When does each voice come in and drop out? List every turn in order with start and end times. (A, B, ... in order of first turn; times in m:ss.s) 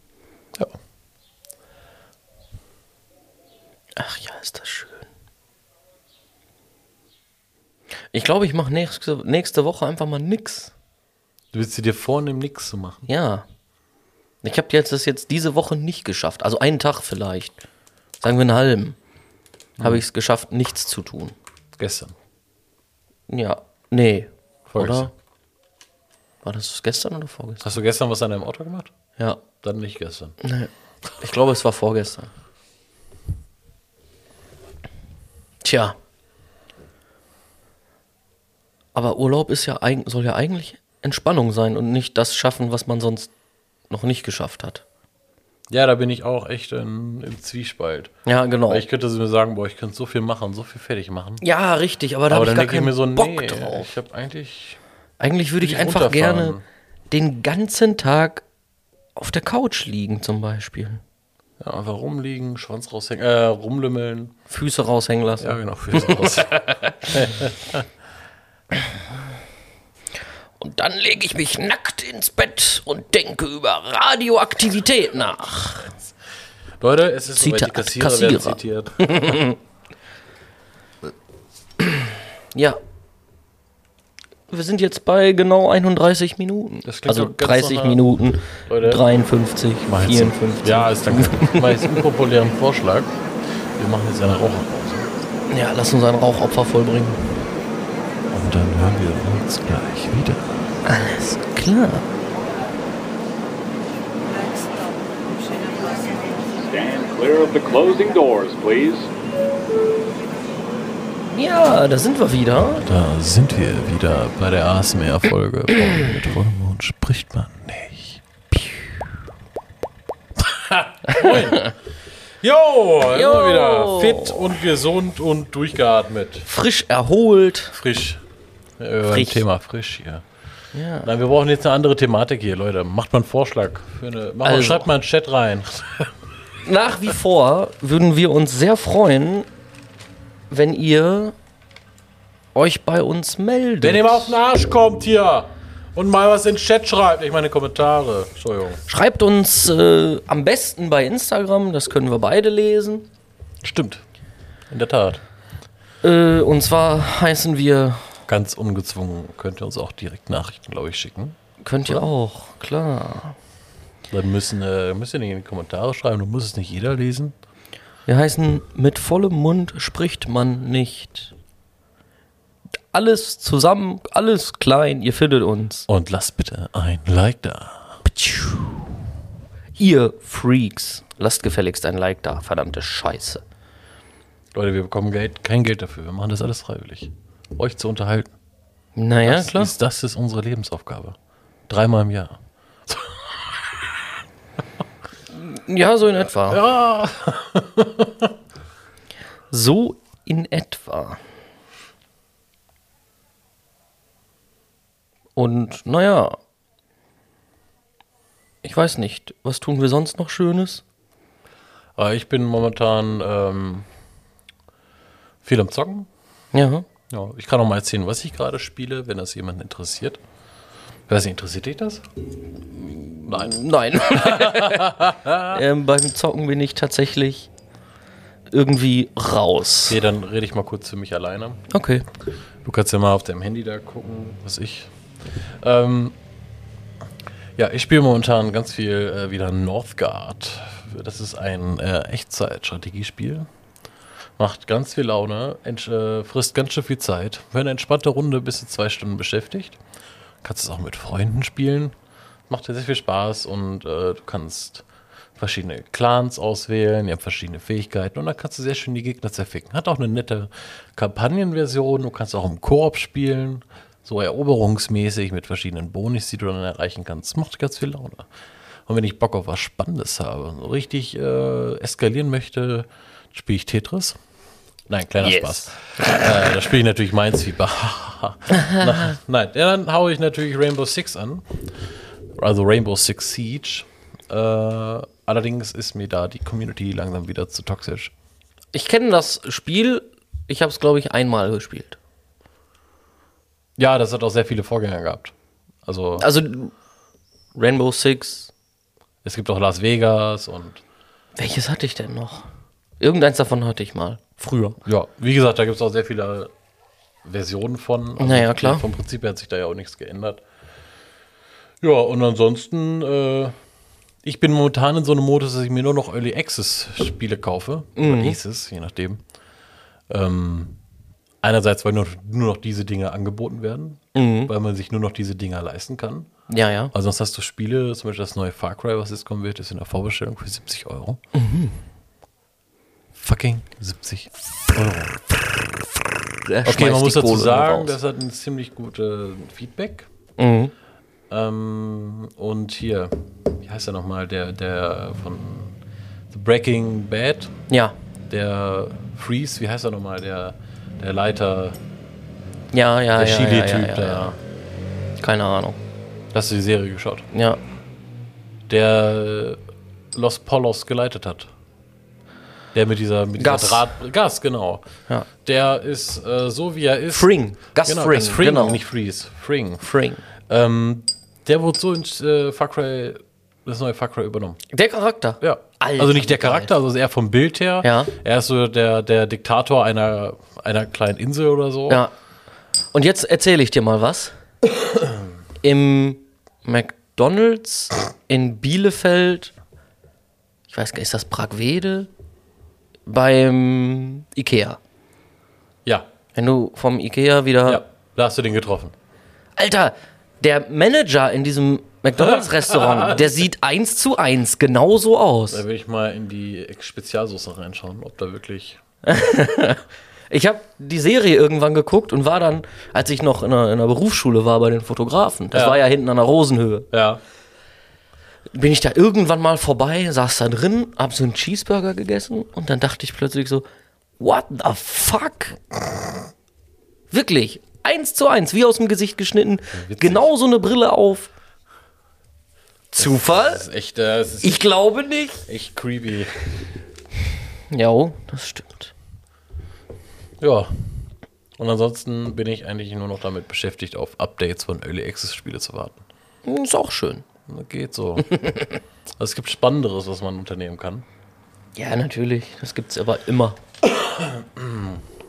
0:04.0-0:05.1 A
0:08.1-0:10.7 A
0:11.5-0:13.0 B
0:13.1-0:13.5 A
0:14.4-0:17.6 A
0:18.2-0:19.0 A
0:19.8-0:20.0 B
0:19.8-0:21.4 A
0:21.8-0:22.2 B
0:23.3-0:25.1 A
0:24.7-0:25.1 B
0:26.4-0:27.7 A
0:27.6-0:28.9 B
0:29.2-0:29.4 A
0:29.6-0:30.4 B
0:30.4-0:32.3 A
0:35.6-0:36.0 A
0:39.0-0:43.3 A
0:43.9-0:44.8 A
0:45.7-0:48.1 B
0:48.2-0:48.8 A
0:48.7-0:51.4 B
0:51.4-0:53.9 A
0:52.3-0:54.8 B
0:55.2-0:56.6 A
0:55.6-0:56.6 B
0:57.1-0:58.4 A
0:59.2-1:01.0 A
1:01.6-1:04.4 B
1:04.5-1:07.3 A
1:05.4-1:07.9 B
1:10.6-1:15.9 A
1:16.8-1:19.5 B
1:17.4-1:19.6 A
1:22.5-1:22.8 A
1:24.5-1:32.0 A
1:26.8-1:28.0 B
1:28.6-1:29.0 B
1:29.9-1:35.1 B
1:35.5-1:37.4 A
1:38.3-1:40.5 B
1:40.9-1:42.1 A
1:46.6-1:49.1 C
1:51.3-1:52.8 A
1:52.7-1:58.2 B
2:00.4-2:01.7 B
2:01.1-2:01.7 A
2:02.4-2:06.5 B
2:03.1-2:04.6 A
2:06.4-2:07.8 A
2:07.7-2:08.2 B
2:08.8-2:10.2 B
2:09.1-2:09.4 A
2:10.7-2:11.1 A
2:11.0-2:16.1 B
2:14.4-2:14.9 A
2:16.6-2:19.5 A
2:20.5-2:21.4 A
2:22.6-2:24.4 A
2:23.8-2:28.8 B
2:28.9-2:33.1 A
2:33.6-2:34.0 B
2:34.7-2:35.2 B
2:36.0-2:38.2 A
2:38.3-2:42.0 B
2:41.6-2:43.4 A
2:44.1-2:47.4 B
2:48.1-2:51.3 A
2:52.9-2:55.9 A
2:55.9-2:58.0 B
2:58.0-2:58.9 A
2:59.8-3:03.4 A
3:04.5-3:08.3 B
3:09.0-3:09.7 A
3:09.2-3:11.2 B
3:11.7-3:13.9 B
3:15.3-3:16.6 A
3:16.4-3:18.3 B
3:19.5-3:21.2 A
3:25.4-3:26.4 A
3:28.6-3:30.8 A
3:32.0-3:33.9 B
3:35.4-3:36.1 B
3:36.5-3:36.9 A
3:37.1-3:40.2 B
3:41.1-3:42.1 B
3:42.7-3:47.5 A
3:43.3-3:45.6 B
3:48.5-3:50.0 A
3:49.9-3:51.6 B
3:51.7-3:52.1 A
3:52.6-3:56.2 B
3:57.6-4:03.5 B
4:04.4-4:09.8 B
4:10.4-4:12.0 B
4:12.5-4:14.8 B
4:15.4-4:28.3 B
4:28.9-4:34.2 B
4:34.9-4:41.7 B
4:35.2-4:35.7 A
4:42.4-4:48.1 B
4:48.7-4:52.0 A
4:53.8-4:55.3 B
4:55.9-4:56.3 B
4:56.2-4:56.7 A
4:57.6-4:58.5 A
4:59.2-5:00.8 B
5:01.4-5:02.5 A
5:03.0-5:04.8 A
5:04.8-5:06.5 B
5:07.2-5:10.4 B
5:08.2-5:08.9 A
5:11.8-5:13.6 B
5:14.2-5:19.2 B
5:18.0-5:18.4 A
5:20.1-5:20.8 B
5:21.4-5:26.3 B
5:24.1-5:24.5 A
5:26.5-5:26.9 A
5:26.9-5:31.2 B
5:31.3-5:31.8 A
5:33.2-5:35.8 B
5:36.4-5:38.0 A
5:36.6-5:40.1 B
5:40.4-5:40.7 A
5:41.3-5:45.8 B
5:46.3-5:47.5 B
5:47.7-5:48.0 A
5:48.3-5:51.8 B
5:52.7-5:54.4 A
5:53.2-5:54.4 B
5:55.2-5:55.8 A
5:56.3-5:57.3 B
5:57.3-5:57.6 A
5:58.7-5:59.6 B
6:00.1-6:01.5 B
6:02.7-6:04.8 B
6:03.4-6:03.9 A
6:05.4-6:14.6 B
6:07.1-6:08.8 A
6:09.8-6:10.2 A
6:14.7-6:16.7 A
6:15.4-6:22.0 B
6:17.8-6:18.1 A
6:22.9-6:24.4 A
6:25.6-6:29.5 A
6:30.7-6:32.1 A
6:33.1-6:34.8 A
6:36.4-6:37.8 A
6:37.7-6:38.9 B
6:39.6-6:45.6 A
6:42.3-6:43.3 B
6:45.5-6:48.8 B
6:49.0-6:56.9 A
6:55.5-6:55.9 B
6:56.9-6:57.2 B
6:58.5-7:03.6 A
7:04.2-7:05.6 A
7:07.1-7:11.3 A
7:09.7-7:10.3 B
7:12.9-7:13.6 A
7:13.0-7:14.7 B
7:14.4-7:15.4 A
7:15.5-7:16.4 B
7:17.7-7:18.9 A
7:20.4-7:26.0 B
7:26.4-7:27.2 A
7:27.5-7:28.6 B
7:29.2-7:31.1 B
7:31.8-7:33.6 A
7:34.0-7:35.0 B